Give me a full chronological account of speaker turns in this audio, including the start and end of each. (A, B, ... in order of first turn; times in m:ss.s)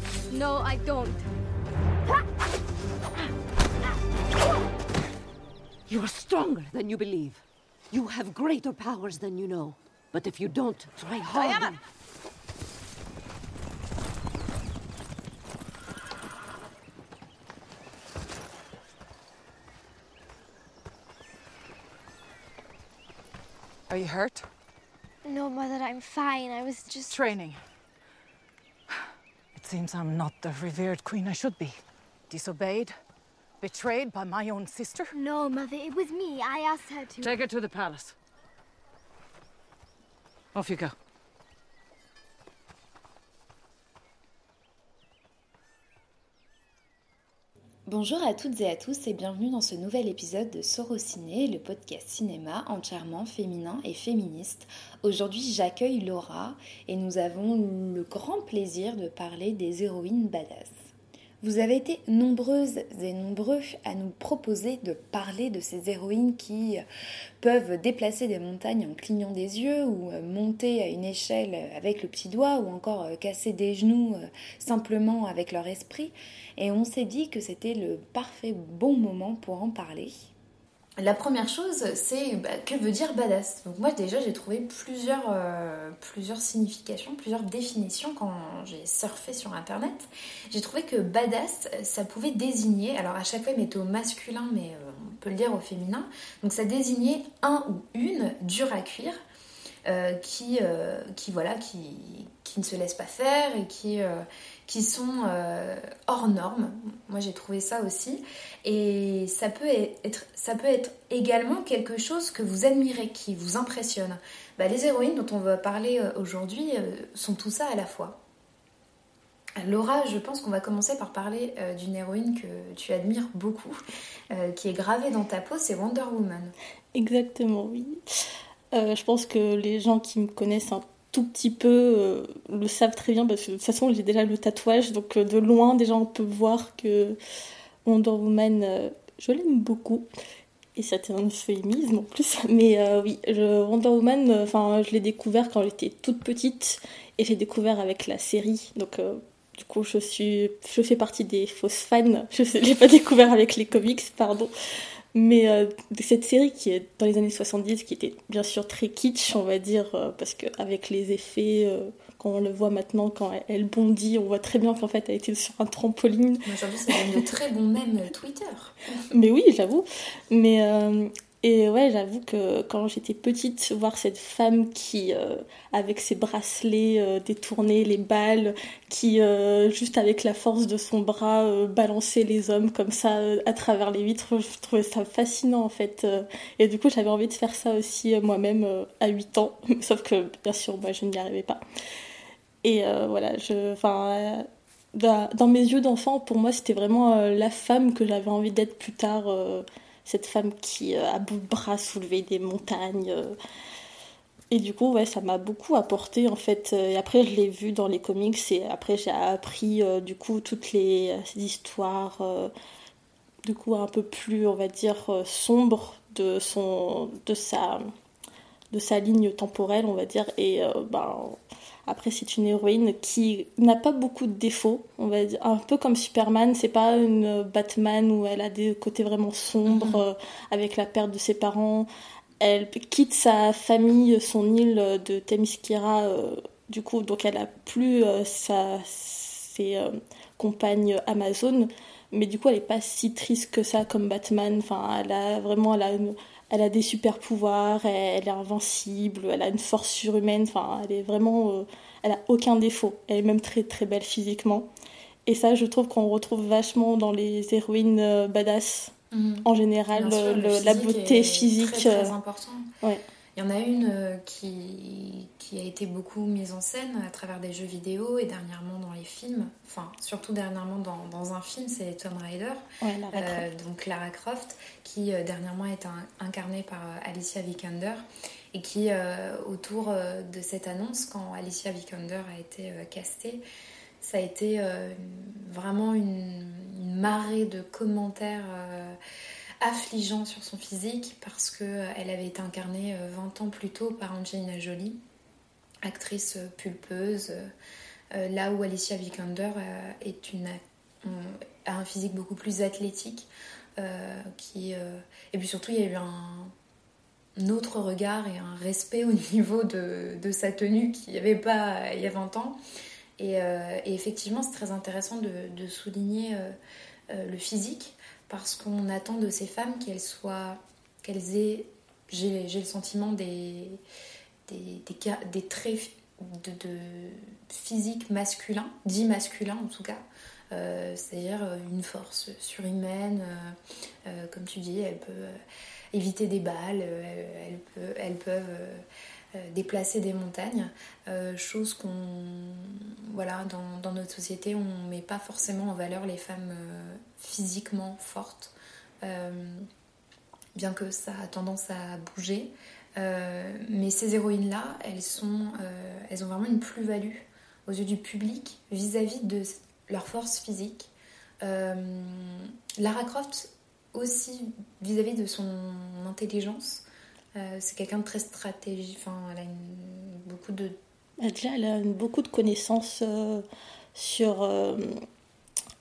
0:00.3-0:01.2 A
0:05.9-0:11.8 B
0:23.9-0:24.5 C
0:25.2-0:27.2 A
0:27.1-0:27.6 C
0:29.5-0:33.0 C
0:33.6-0:35.1 C
0:35.1-0:37.3 A
0:37.2-0:38.1 C
0:37.2-0:38.0 B
0:40.5-0:41.0 C
0:47.9-1:06.8 D
1:07.4-1:20.3 D
1:21.0-1:39.2 D
1:39.8-1:58.2 D
1:59.6-2:06.6 D
2:06.9-2:17.2 E
2:17.8-2:20.1 E
2:20.8-2:34.5 E
2:35.1-2:47.2 E
2:46.4-2:49.0 D
2:49.1-3:11.6 E
3:12.6-3:23.4 E
3:24.5-3:32.5 E
3:33.4-3:37.9 E
3:38.7-3:51.9 E
3:49.7-3:50.1 D
3:52.4-4:14.7 E
4:15.2-4:18.9 E
4:19.1-4:22.7 D
4:19.4-4:22.1 E
4:23.3-4:43.4 D
4:32.8-4:33.4 E
4:44.0-4:49.0 D
4:49.6-4:55.0 D
4:55.8-4:57.5 D
4:58.1-5:06.5 D
5:07.4-5:12.6 D
5:13.2-5:16.6 D
5:17.1-5:23.8 D
5:24.4-5:35.4 D
5:35.9-5:49.7 D
5:50.5-6:06.8 D
6:07.3-6:10.8 D
6:11.2-6:15.0 E